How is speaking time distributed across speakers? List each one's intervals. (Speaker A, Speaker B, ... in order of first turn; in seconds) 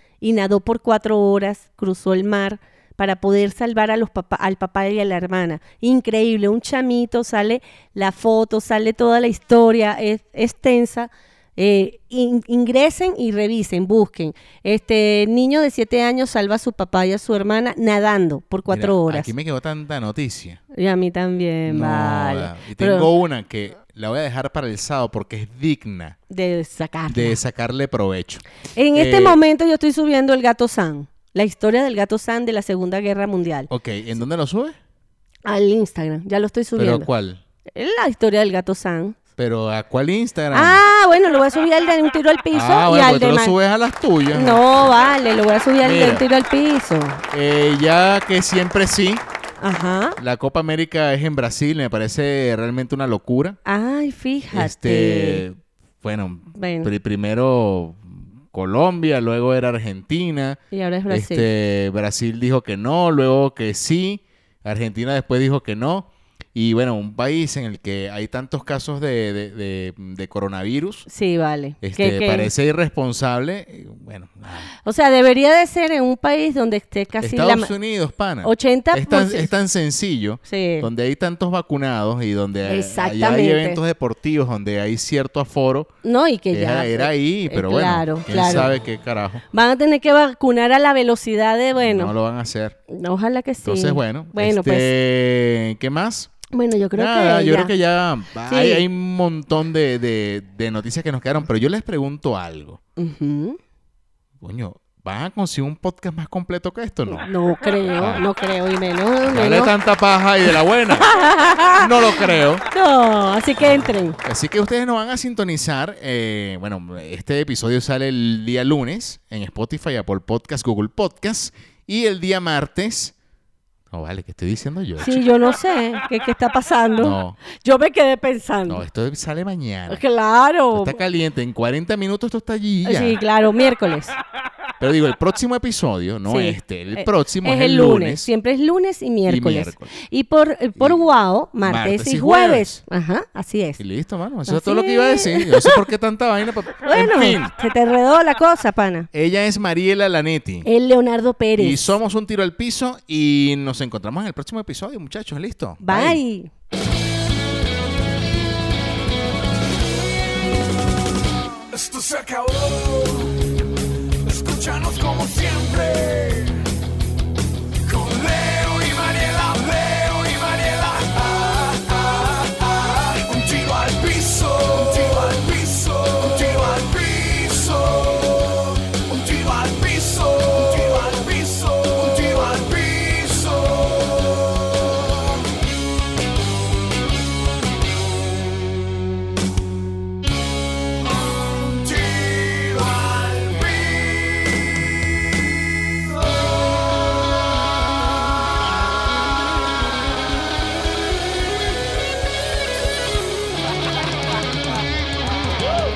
Speaker A: 0.2-19.3, 20.7-23.1, 26.3-27.4, 28.8-33.7, 35.5-37.1, 37.7-39.2, 40.5-43.6, 44.3-47.2, 49.6-50.2, 53.6-55.4, 56.6-56.9, 60.7-61.5, 71.1-72.5, 74.8-77.7, 78.4-79.5, 80.5-80.9, 82.7-83.8, 86.0-88.7, 89.5-92.1, 92.9-94.9, 96.5-97.7, 98.5-98.8, 103.0-103.6, 107.1-109.7, 110.9-114.2, 125.0-128.8, 129.9-131.0, 132.8-134.2, 136.3-143.8, 144.4-145.8, 146.8-149.1, 150.6-151.9, 155.8-156.5
Speaker B: 18.7-20.6, 21.7-26.2, 27.1-29.4, 33.7-34.8, 36.8-37.4, 39.4-40.8, 42.5-44.9, 45.8-46.3, 47.3-49.2, 50.2-53.6, 54.5-71.1, 71.8-74.7, 77.2-85.9, 86.5-89.4, 91.8-92.8, 93.6-96.4, 97.0-102.8, 104.4-107.3, 107.9-108.2, 109.2-111.1, 111.7-112.6, 114.2-123.1, 123.9-125.3, 127.0-127.4, 128.7-130.0, 130.7-133.2, 134.8-138.3, 139.3-139.9, 140.8-141.1, 141.6-142.8, 143.8-147.5, 149.1-150.7, 151.6-156.2
Speaker C: 161.7-163.4, 164.2-166.6, 167.8-184.5, 191.2-194.4, 196.2-196.8